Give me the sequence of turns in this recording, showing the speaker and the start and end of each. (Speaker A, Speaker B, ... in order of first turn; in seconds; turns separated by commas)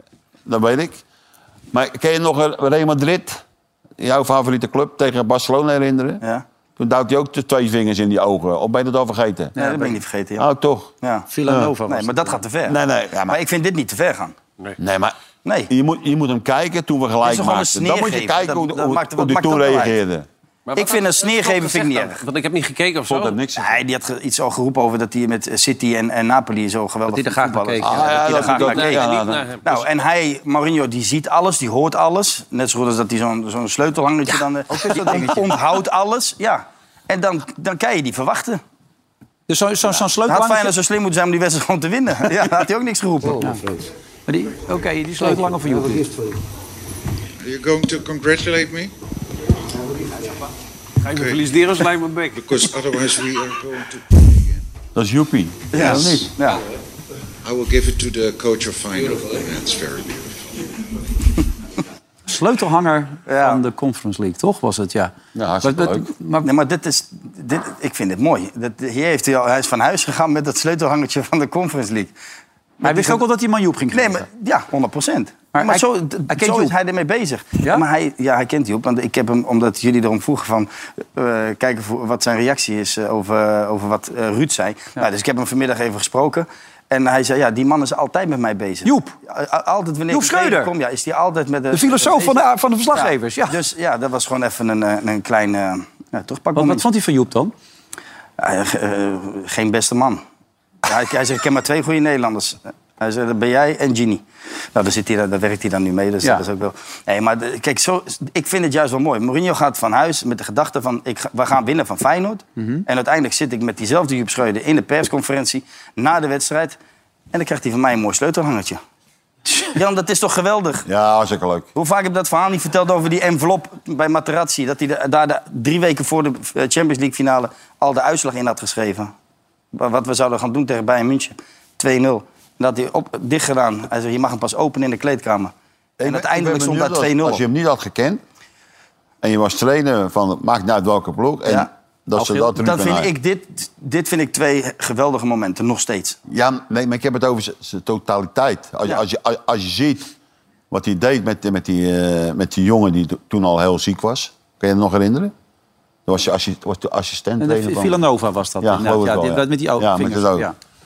Speaker A: 0.5-1.0, Speaker A: 1.7-3.4, Speaker A: 4.0-6.2, Speaker A: 6.8-9.6, Speaker B: 9.6-9.9, Speaker C: 9.6-10.5, Speaker A: 10.4-10.9, Speaker C: 11.0-11.3, Speaker B: 11.3-12.4, Speaker A: 11.4-11.7, Speaker C: 11.8-14.3, Speaker A: 12.6-13.4, Speaker A: 14.8-15.1, Speaker C: 15.4-15.7, Speaker A: 15.7-20.2, Speaker C: 17.2-19.9, Speaker D: 20.6-23.4, Speaker C: 20.8-22.2, Speaker A: 23.1-23.8, Speaker C: 23.6-29.0, Speaker B: 27.1-28.8, Speaker A: 27.8-29.4, Speaker D: 28.6-29.9, Speaker C: 29.6-38.6, Speaker B: 34.3-35.6, Speaker B: 39.5-40.7, Speaker C: 40.3-43.5, Speaker B: 43.4-43.6, Speaker B: 44.3-46.1, Speaker E: 47.4-48.9, Speaker D: 51.0-52.7, Speaker E: 51.1-51.5, Speaker E: 52.3-54.6, Speaker A: 54.9-56.3, Speaker C: 55.7-56.6, Speaker E: 57.4-60.4, Speaker B: 62.3-65.1, Speaker C: 63.3-63.6, Speaker A: 65.3-66.1, Speaker B: 65.6-66.5, Speaker C: 66.4-72.1, Speaker C: 72.8-73.2, Speaker B: 72.8-74.3, Speaker C: 73.9-96.8, Speaker B: 75.5-76.7, Speaker B: 88.8-89.1, Speaker B: 90.1-90.7, Speaker B: 91.7-93.6, Speaker B: 96.5-97.5, Speaker C: 98.4-100.2, Speaker C: 100.8-104.2, Speaker C: 104.7-116.8, Speaker B: 112.6-112.8, Speaker C: 117.3-118.8, Speaker C: 119.7-120.8, Speaker A: 120.8-121.7, Speaker C: 121.7-129.1, Speaker C: 129.8-137.4, Speaker A: 136.0-138.2, Speaker A: 139.2-143.1, Speaker B: 142.2-142.4, Speaker C: 142.5-146.2, Speaker A: 146.3-150.1, Speaker A: 150.7-155.3, Speaker A: 156.1-158.0, Speaker B: 157.4-160.5, Speaker A: 158.6-160.5